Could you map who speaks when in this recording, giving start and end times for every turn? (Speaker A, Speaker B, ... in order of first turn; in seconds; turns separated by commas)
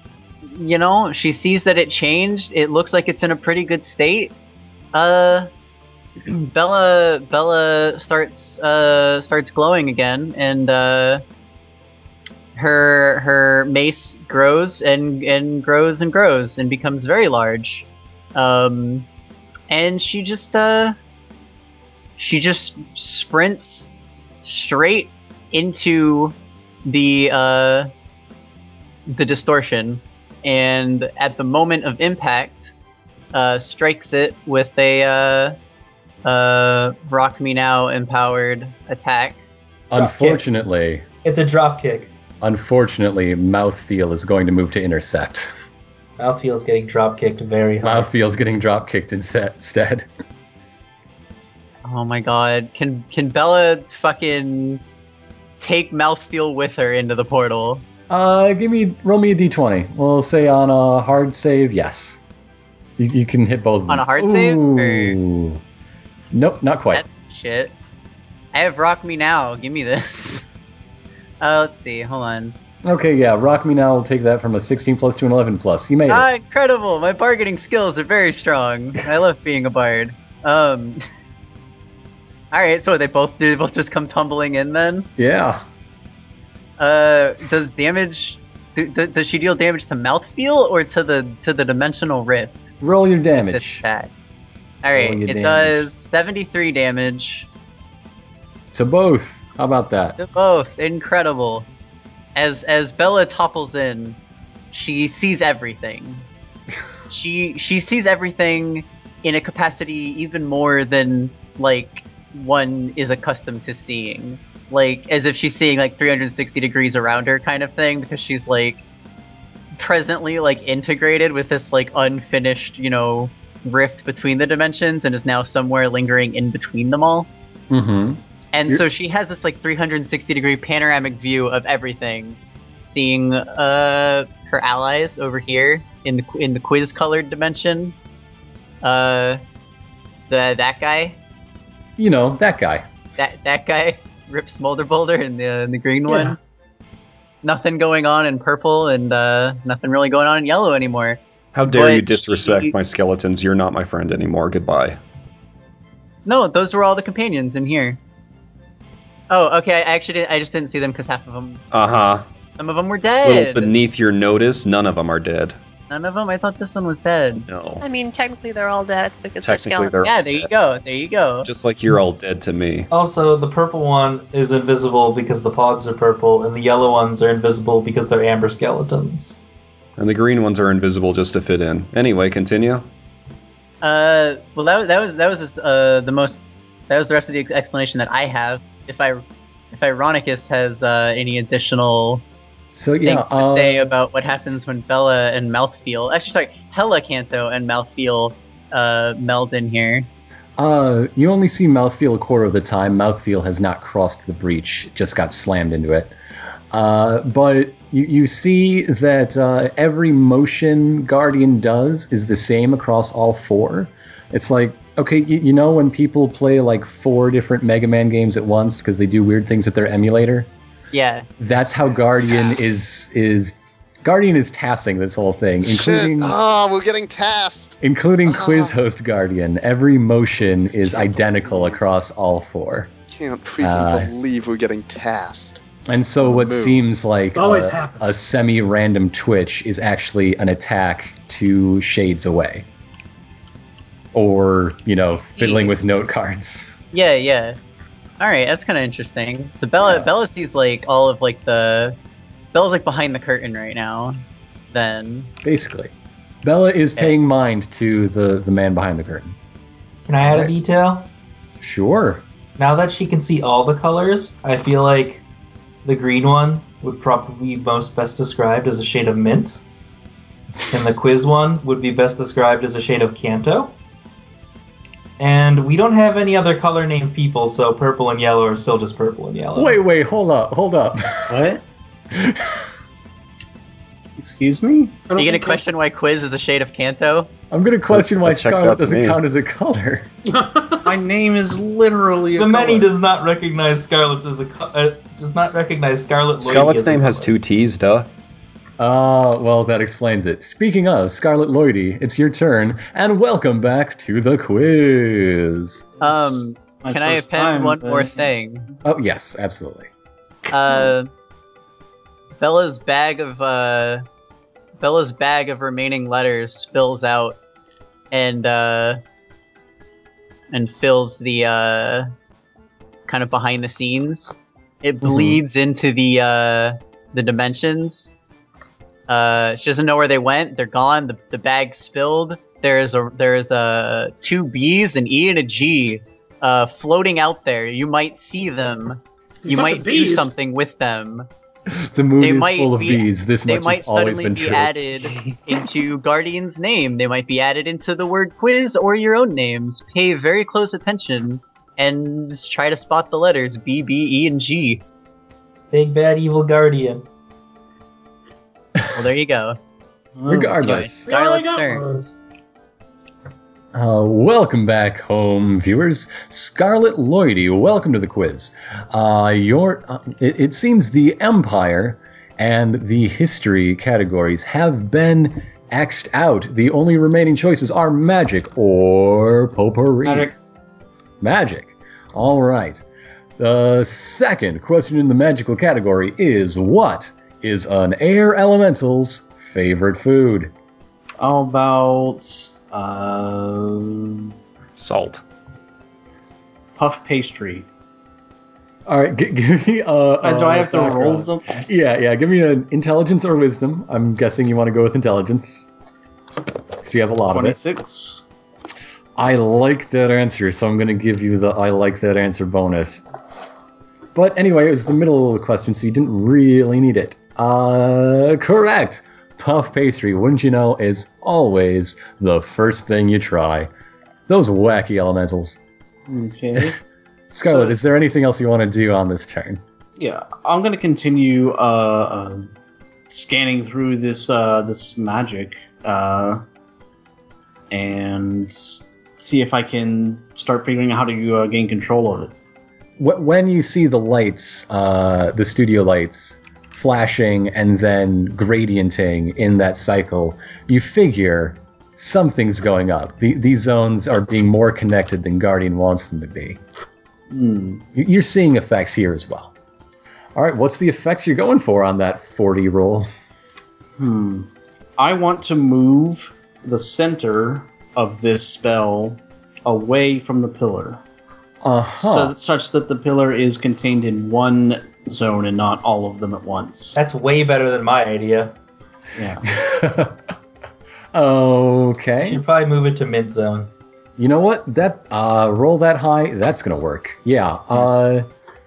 Speaker A: 0.5-4.3, Speaker A: 4.9-5.5, Speaker A: 6.2-11.2, Speaker A: 12.5-19.1, Speaker A: 19.7-21.0, Speaker A: 22.2-23.9, Speaker A: 24.4-26.3, Speaker A: 26.9-27.9, Speaker A: 29.1-32.7, Speaker A: 33.3-35.5, Speaker A: 36.2-39.4, Speaker B: 39.9-41.0, Speaker C: 39.9-40.4, Speaker C: 41.2-42.1, Speaker B: 42.4-45.5, Speaker C: 46.2-48.1, Speaker B: 47.8-50.1, Speaker A: 51.8-54.8, Speaker A: 55.6-57.8, Speaker B: 58.1-62.2, Speaker B: 63.0-65.6, Speaker A: 63.9-65.2, Speaker B: 66.3-67.0, Speaker A: 66.9-67.7, Speaker A: 68.5-70.5, Speaker A: 71.4-72.5, Speaker B: 72.8-76.3, Speaker A: 76.1-81.0, Speaker A: 82.5-85.1, Speaker B: 85.2-85.6, Speaker A: 86.8-92.7, Speaker B: 92.8-93.8, Speaker A: 93.5-94.1, Speaker A: 94.8-97.5, Speaker B: 94.9-95.9, Speaker B: 98.7-100.2, Speaker A: 100.2-101.7, Speaker A: 102.3-104.2, Speaker A: 104.7-106.3, Speaker A: 107.1-118.8, Speaker A: 119.8-127.3, Speaker B: 127.7-128.8, Speaker A: 128.5-137.9, Speaker A: 138.8-139.4, Speaker A: 140.3-141.2, Speaker B: 142.0-142.8, Speaker A: 143.2-146.4, Speaker D: 146.1-146.3, Speaker A: 147.4-152.7, Speaker E: 151.5-155.0, Speaker A: 156.2-158.0, Speaker A: 159.3-161.6, Speaker E: 161.7-162.2, Speaker A: 162.6-163.7, Speaker E: 163.2-165.6, Speaker A: 165.9-167.4, Speaker E: 167.5-167.8, Speaker F: 167.8-170.0, Speaker E: 169.4-170.5, Speaker A: 170.0-171.5, Speaker E: 171.4-172.9, Speaker C: 172.9-179.4, Speaker E: 180.0-182.9, Speaker A: 183.8-192.2, Speaker B: 192.8-194.6, Speaker A: 193.0-200.1, Speaker B: 200.6-206.1, Speaker B: 206.7-220.5, Speaker A: 220.9-221.3, Speaker B: 221.4-226.3, Speaker G: 225.7-228.7, Speaker B: 227.8-232.9, Speaker G: 230.8-231.8, Speaker G: 233.1-235.6, Speaker B: 233.6-234.1, Speaker B: 235.9-242.6, Speaker G: 236.2-236.8, Speaker D: 237.3-238.2, Speaker B: 244.1-246.7, Speaker F: 245.4-245.6, Speaker A: 246.9-247.6, Speaker A: 248.2-252.0, Speaker B: 249.8-250.1, Speaker A: 252.5-254.2, Speaker A: 254.7-255.3, Speaker B: 255.4-255.9, Speaker B: 256.4-259.4, Speaker C: 260.1-261.1, Speaker B: 260.2-260.5, Speaker B: 261.6-262.2, Speaker C: 262.6-265.2, Speaker C: 265.8-269.6, Speaker C: 270.7-273.7, Speaker C: 275.2-279.8, Speaker B: 279.5-281.4, Speaker H: 281.3-281.6, Speaker B: 282.1-282.6, Speaker H: 284.2-285.0, Speaker D: 285.1-285.6, Speaker A: 285.2-287.3, Speaker B: 287.5-290.1, Speaker E: 287.9-289.2, Speaker D: 290.2-291.0, Speaker H: 290.8-292.9, Speaker C: 292.3-297.3, Speaker E: 296.4-298.1, Speaker B: 298.8-305.8, Speaker A: 306.0-308.7, Speaker H: 306.1-308.3, Speaker B: 308.8-309.9, Speaker A: 310.5-311.1, Speaker A: 312.4-314.0, Speaker A: 314.8-317.4, Speaker A: 318.1-319.0, Speaker A: 320.5-322.1, Speaker A: 323.1-328.1, Speaker A: 329.1-341.3, Speaker D: 339.4-340.3, Speaker B: 341.7-344.7, Speaker A: 342.2-354.8, Speaker C: 355.7-357.1, Speaker A: 358.9-359.6, Speaker H: 360.2-360.6, Speaker B: 360.3-361.1, Speaker A: 360.6-361.8, Speaker D: 361.0-362.1, Speaker B: 363.7-380.3, Speaker H: 380.0-380.3, Speaker B: 381.2-382.8, Speaker B: 383.4-390.5, Speaker H: 391.2-394.3, Speaker E: 394.8-395.2, Speaker H: 396.8-397.6, Speaker B: 398.9-405.7, Speaker H: 400.2-401.7, Speaker B: 406.8-407.6, Speaker H: 407.3-408.2, Speaker B: 409.1-413.0, Speaker B: 414.1-423.7, Speaker B: 424.3-425.6, Speaker H: 426.1-426.8, Speaker B: 427.3-429.6, Speaker H: 427.5-427.7, Speaker H: 430.0-432.5, Speaker H: 433.1-436.4, Speaker H: 437.7-442.3, Speaker B: 443.0-456.6, Speaker H: 457.3-457.8, Speaker B: 457.9-459.5, Speaker B: 460.3-463.1, Speaker H: 464.0-471.0, Speaker B: 471.6-472.3, Speaker H: 472.0-476.9, Speaker C: 476.9-478.5, Speaker H: 479.1-479.4, Speaker B: 479.4-480.2, Speaker B: 481.1-482.4, Speaker C: 482.2-483.7, Speaker B: 484.2-488.3